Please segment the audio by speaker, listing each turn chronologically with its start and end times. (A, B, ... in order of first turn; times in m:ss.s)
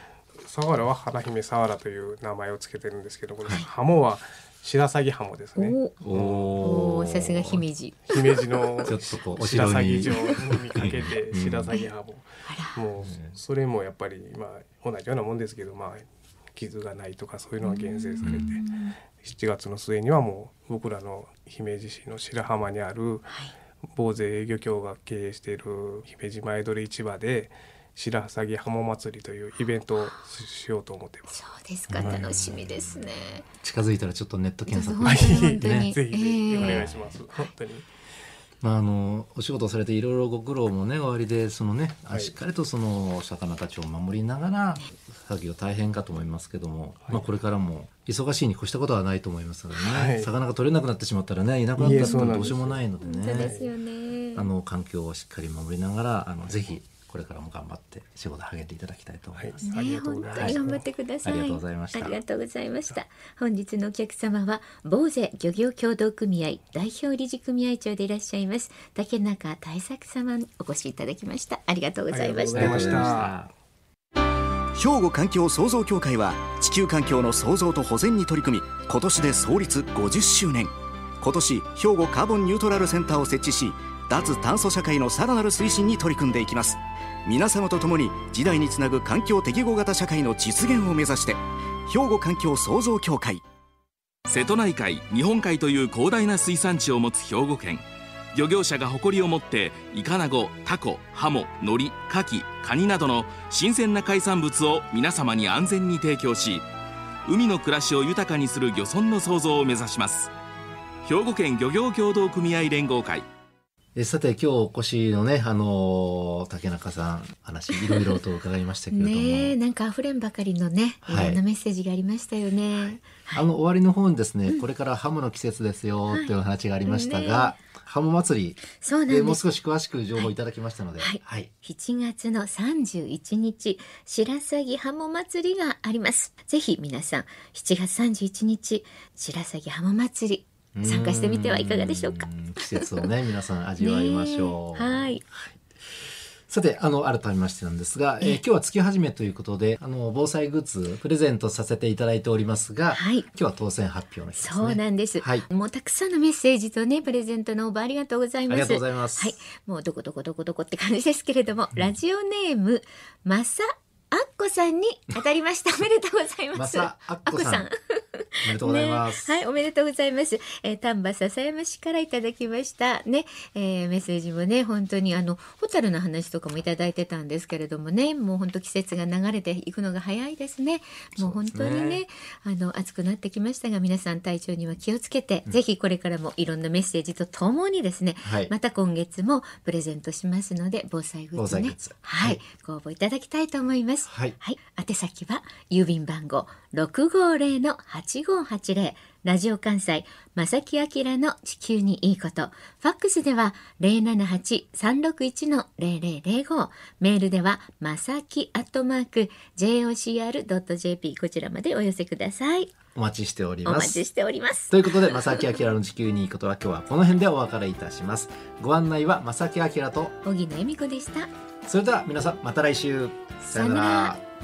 0:00.4-0:06.6 A
0:05.6-0:05.9 B
0:06.0-0:07.6 C
0:06.6-0:09.2 B
0:08.1-0:18.6 A
0:08.8-0:11.7 C
0:10.0-0:10.4 B
0:12.4-0:12.8 B
0:13.0-0:13.4 C
0:17.6-0:19.0 B
0:18.2-0:18.6 C
0:19.2-0:23.3 A
0:23.3-0:23.5 B
0:23.9-0:31.4 A
0:31.3-0:33.4 B
0:31.9-0:35.9 C
0:32.0-0:32.2 A
0:34.7-0:37.5 B
0:35.0-0:37.9 A
0:36.5-0:37.1 C
0:38.6-0:53.6 C
0:49.9-0:50.3 A
0:51.8-0:54.5 B
0:51.8-0:52.8 A
0:53.4-0:53.7 A
0:54.3-0:59.7 C
0:59.3-1:00.8 A
0:59.6-1:13.2 B
1:00.3-1:00.6 C
1:01.2-1:02.2 C
1:12.1-1:13.4 A
1:12.5-1:13.5 C
1:14.7-1:33.4 D
1:34.3-1:46.6 E
1:47.2-1:50.3 E
1:51.0-1:53.2 E
1:54.0-1:59.6 C
1:57.7-1:58.2 B
1:58.9-2:03.5 B
2:01.0-2:01.4 C
2:02.7-2:11.5 C
2:06.1-2:07.6 B
2:08.8-2:09.4 B
2:11.0-2:23.1 B
2:20.7-2:25.5 C
2:23.8-2:25.2 B
2:26.5-2:35.5 C
2:32.9-2:33.3 B
2:34.4-3:32.7 B
2:38.5-2:39.4 C
2:46.5-2:47.7 C
2:48.4-2:49.4 C
3:01.2-3:02.0 C
3:08.2-3:08.5 C
3:11.4-3:12.4 C
3:14.1-3:14.4 C
3:32.9-3:34.0 C
3:33.6-3:35.5 B
3:34.7-3:40.1 C
3:40.2-3:41.3 B
3:41.6-3:44.2 C
3:43.4-3:44.2 B